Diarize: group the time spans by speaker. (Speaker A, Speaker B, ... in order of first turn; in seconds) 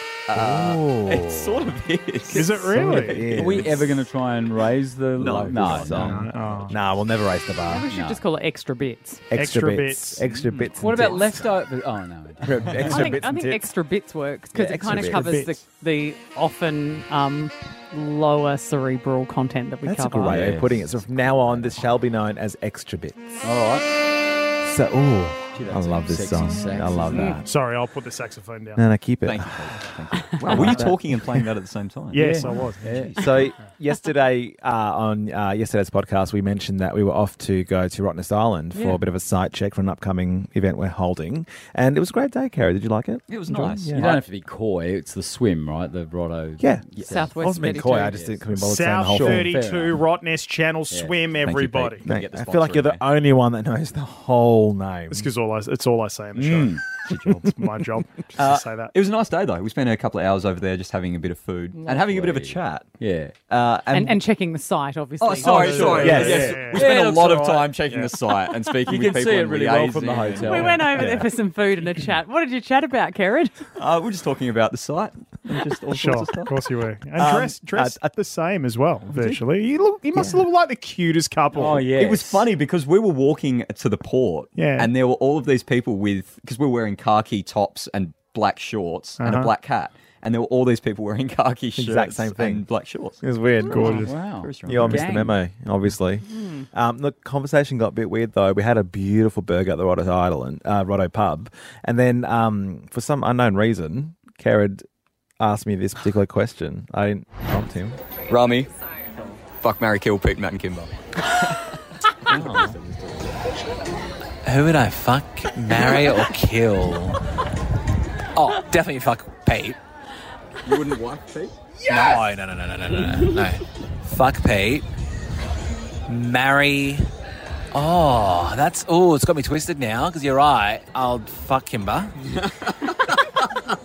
Speaker A: 0.3-3.1, 5.2-6.2, 29.2-32.4, 43.3-44.2, 52.0-53.0, 58.4-62.9, 63.5-64.2, 65.2-70.7, 73.8-76.7, 81.9-95.3, 108.3-108.7, 109.5-111.4, 112.3-113.5, 120.6-121.6, 132.3-133.1
Speaker B: 0.3-1.8, 2.7-3.9, 5.2-7.9, 9.3-11.5, 12.4-13.7, 14.5-15.4, 19.8-23.5, 24.6-27.5, 28.8-31.0, 33.2-44.2, 46.6-49.5, 52.0-55.3, 66.0-66.8, 71.0-71.3, 77.2-78.0, 91.8-92.7, 93.2-94.1, 94.6-104.8, 105.4-108.0
Speaker C: 2.3-3.3, 6.0-6.8, 9.3-10.3, 14.9-15.6, 27.1-28.8, 30.5-30.9, 32.1-33.1, 48.5-52.1, 55.1-58.9, 65.4-66.9, 67.9-68.1, 75.9-81.9, 84.5-84.9, 89.2-89.5, 93.7-94.2, 121.8-122.2
Speaker D: 3.2-6.7, 7.9-8.2, 10.7-13.1, 20.3-21.8, 23.4-23.9, 25.6-27.4, 32.1-33.3, 43.5-48.4, 49.1-50.0, 50.9-52.0, 56.4-57.3, 61.9-63.3, 66.6-67.8, 68.9-71.0, 81.5-82.4, 93.8-95.3
Speaker E: 7.7-9.2, 12.9-20.4, 47.0-48.1, 63.9-66.2, 70.4-73.5, 96.3-96.7
Speaker F: 114.5-117.2, 118.3-119.8, 121.9-124.9, 126.1-127.1, 127.7-132.1